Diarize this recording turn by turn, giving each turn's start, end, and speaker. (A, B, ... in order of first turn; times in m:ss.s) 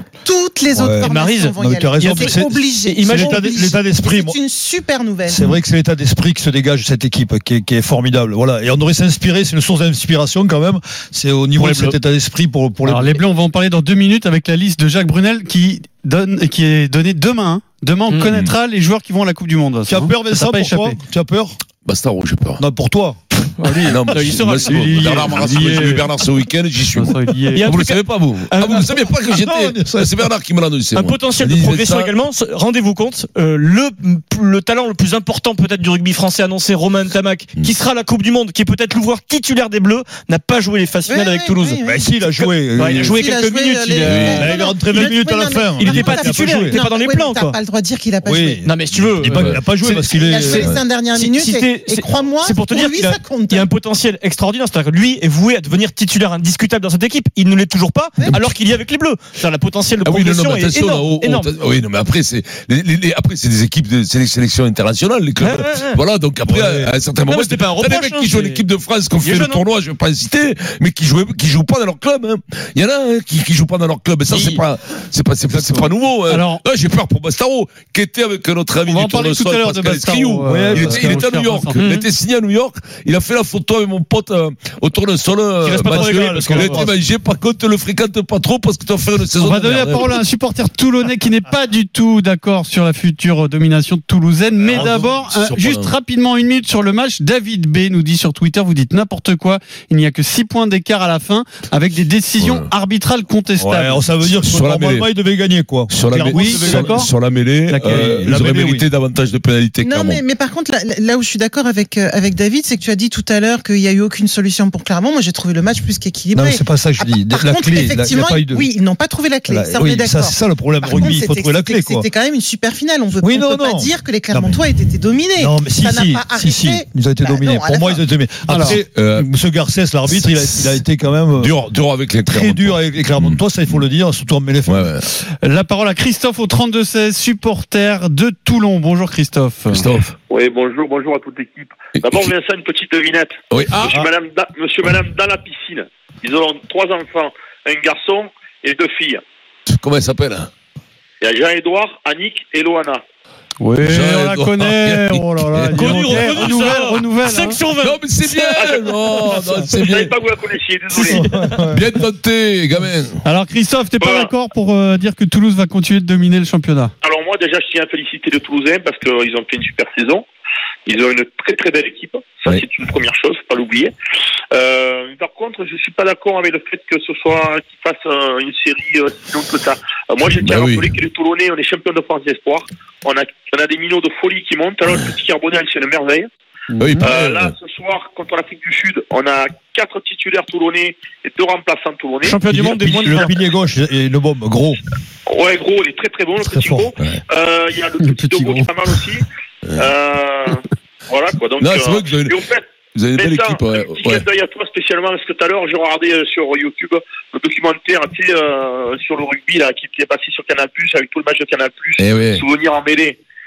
0:00.2-0:05.5 A
0:00.7-0:04.4 B
0:01.0-0:03.5 C
0:05.3-0:13.2 B
0:11.6-0:12.0 C
0:12.8-0:21.0 D
0:19.9-0:21.6 B
0:21.8-0:22.6 E
0:22.6-0:23.2 B
0:23.4-0:25.2 C
0:23.7-0:23.9 D
0:23.8-0:32.2 E
0:24.6-0:26.1 D
0:26.9-0:27.7 D
0:27.5-0:28.9 C
0:28.7-0:30.3 B
0:30.9-0:45.2 C
0:41.0-0:42.1 A
0:41.8-0:43.3 B
0:42.8-0:48.7 A
0:44.0-0:44.5 E
0:44.3-0:46.8 B
0:45.8-0:47.6 C
0:48.2-0:50.7 B
0:48.6-1:01.5 C
0:49.3-0:49.7 E
0:50.1-0:53.7 A
0:58.2-0:58.4 A
1:00.0-1:30.2 E
1:05.4-1:06.0 C
1:06.4-1:06.9 B
1:07.2-1:09.6 C
1:14.3-1:14.6 C
1:15.5-1:15.9 B
1:16.3-1:16.6 D
1:18.8-1:21.9 D
1:20.4-1:21.2 B
1:21.7-1:22.0 C
1:25.6-1:26.8 C
1:25.8-1:26.9 B
1:29.4-1:44.0 D
1:34.6-1:35.9 E
1:42.4-1:42.7 E
1:43.6-1:47.1 B
1:44.2-1:45.1 E
1:45.9-1:50.2 E
1:46.3-1:47.1 D
1:47.7-1:48.2 D
1:47.8-1:48.9 B
1:49.8-2:08.0 A
1:56.3-1:58.7 B
1:59.5-2:02.1 B
2:03.2-2:04.5 B
2:05.4-2:11.6 B
2:08.5-2:08.8 D
2:08.7-2:09.3 E
2:10.1-2:10.8 E
2:11.4-2:13.8 E
2:12.2-2:14.9 B
2:14.7-2:15.1 E
2:15.4-2:19.9 D
2:19.7-2:20.2 E
2:20.3-2:29.2 F
2:21.9-2:22.3 E
2:23.5-2:24.0 E
2:29.7-2:30.5 E
2:31.2-2:33.0 F
2:33.6-2:37.6 D
2:33.8-2:36.4 E
2:35.7-2:38.6 C
2:37.8-2:40.2 E
2:38.5-2:41.5 F
2:40.9-2:41.9 B
2:41.6-2:43.2 E
2:43.2-2:46.9 D
2:44.0-2:44.3 F
2:47.0-2:50.2 F
2:50.9-2:53.9 F
2:54.5-3:06.3 F
3:00.2-3:00.9 E
3:06.8-3:07.5 E
3:07.0-3:12.4 F
3:12.2-3:13.4 C
3:12.4-3:14.8 B
3:15.3-3:19.2 F
3:16.5-3:16.9 B
3:18.0-3:18.7 D
3:19.7-3:22.6 F
3:21.6-3:24.2 E
3:23.2-3:33.2 F
3:32.0-3:32.4 E